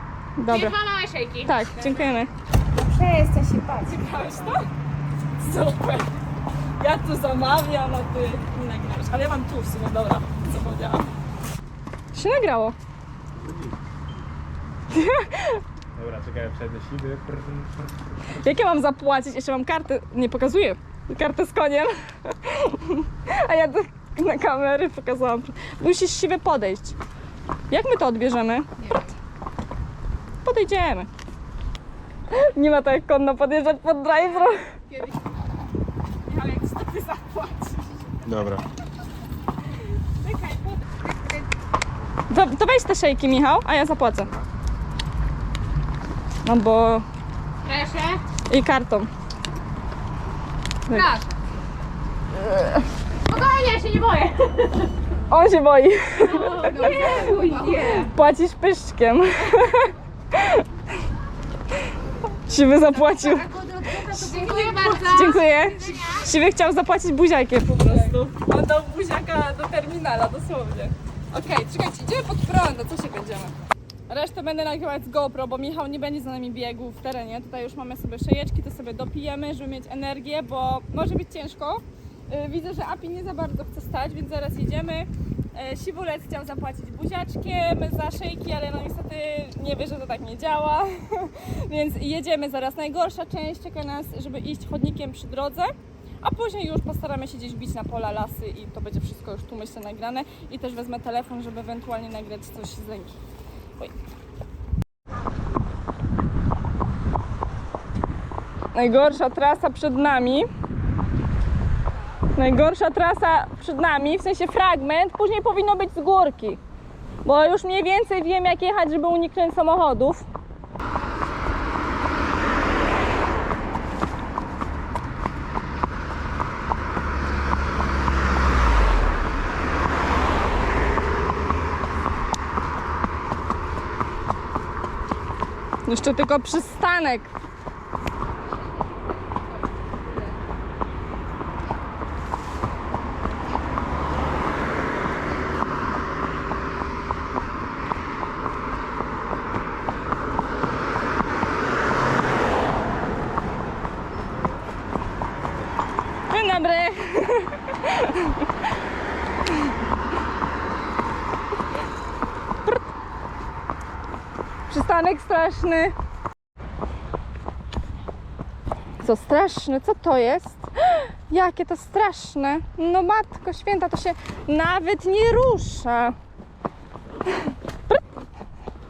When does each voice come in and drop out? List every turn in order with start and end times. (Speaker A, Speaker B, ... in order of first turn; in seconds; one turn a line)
Speaker A: 0.4-0.8
Speaker B: 0.5-2.1
Speaker A: 1.4-2.3
Speaker B: 2.8-3.9
Speaker A: 3.7-4.7
Speaker A: 5.4-6.1
Speaker A: 6.8-11.1
Speaker A: 12.1-12.8
Speaker C: 13.4-13.8
Speaker A: 14.9-15.6
Speaker C: 15.9-18.4
Speaker A: 18.4-26.9
Speaker A: 27.7-28.9
Speaker A: 30.4-31.1
Speaker A: 32.3-34.7
Speaker A: 36.3-37.9
Speaker C: 38.2-38.6
Speaker A: 40.2-40.8
Speaker B: 41.0-41.3
Speaker A: 42.3-44.3
Speaker A: 46.4-47.0
Speaker B: 47.6-48.2
Speaker A: 48.5-49.1
Speaker A: 50.9-51.1
Speaker B: 50.9-51.4
Speaker A: 52.3-52.9
Speaker B: 53.2-54.9
Speaker A: 55.3-60.7
Speaker B: 56.2-58.1
Speaker A: 62.5-73.5
Speaker B: 62.9-66.3
Speaker A: 74.1-103.1
Speaker A: 108.7-110.5
Speaker A: 112.3-116.6
Speaker A: 117.2-120.2
Speaker A: 135.8-137.3
Speaker B: 138.6-140.4
Speaker A: 156.3-158.5
Speaker A: 164.7-165.9
Speaker A: 169.0-176.2